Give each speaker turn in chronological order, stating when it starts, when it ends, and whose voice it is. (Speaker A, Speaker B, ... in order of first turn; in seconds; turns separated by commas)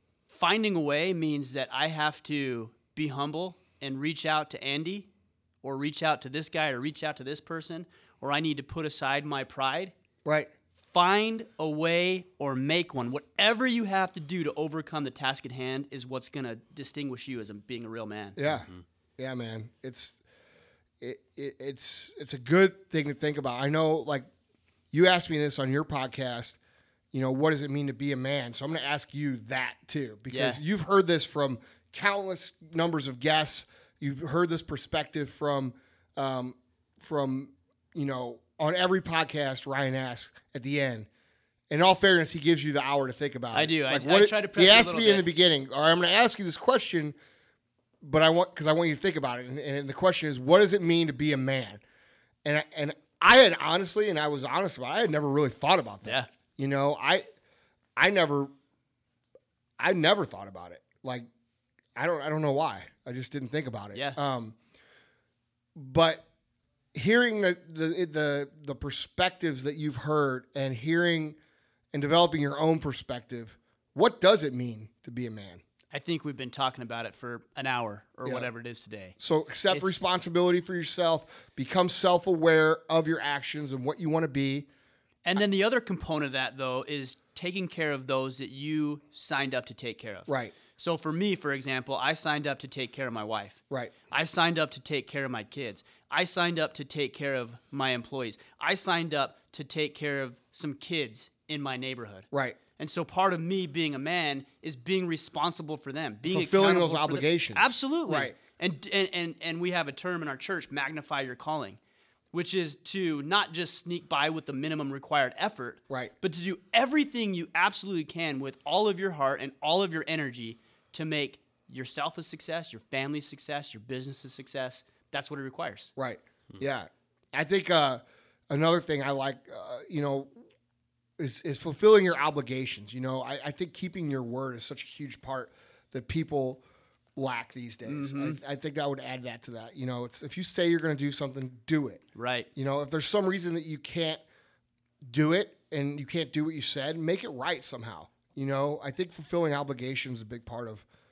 Speaker A: 0.3-5.1, Speaker A: 5.6-9.9, Speaker B: 10.2-10.5, Speaker A: 10.9-18.4, Speaker B: 18.4-20.2, Speaker B: 21.0-24.3, Speaker B: 24.9-26.6, Speaker B: 27.1-41.1, Speaker A: 30.3-30.6, Speaker B: 41.7-47.1, Speaker A: 43.5-45.3, Speaker B: 48.0-51.8, Speaker B: 52.4-57.2, Speaker B: 58.0-58.5, Speaker B: 59.8-61.3, Speaker B: 62.0-64.5, Speaker B: 65.8-66.2, Speaker B: 66.9-71.4, Speaker B: 71.9-75.6, Speaker A: 75.9-79.1, Speaker B: 79.2-84.7, Speaker A: 79.7-80.0, Speaker A: 85.2-111.8, Speaker B: 90.3-90.5, Speaker B: 102.3-102.6, Speaker B: 106.3-108.3, Speaker A: 112.3-125.9, Speaker B: 126.0-130.3, Speaker B: 131.2-136.6, Speaker B: 137.2-142.0, Speaker A: 137.9-138.4, Speaker A: 142.2-142.5, Speaker B: 142.6-144.2, Speaker B: 145.1-150.8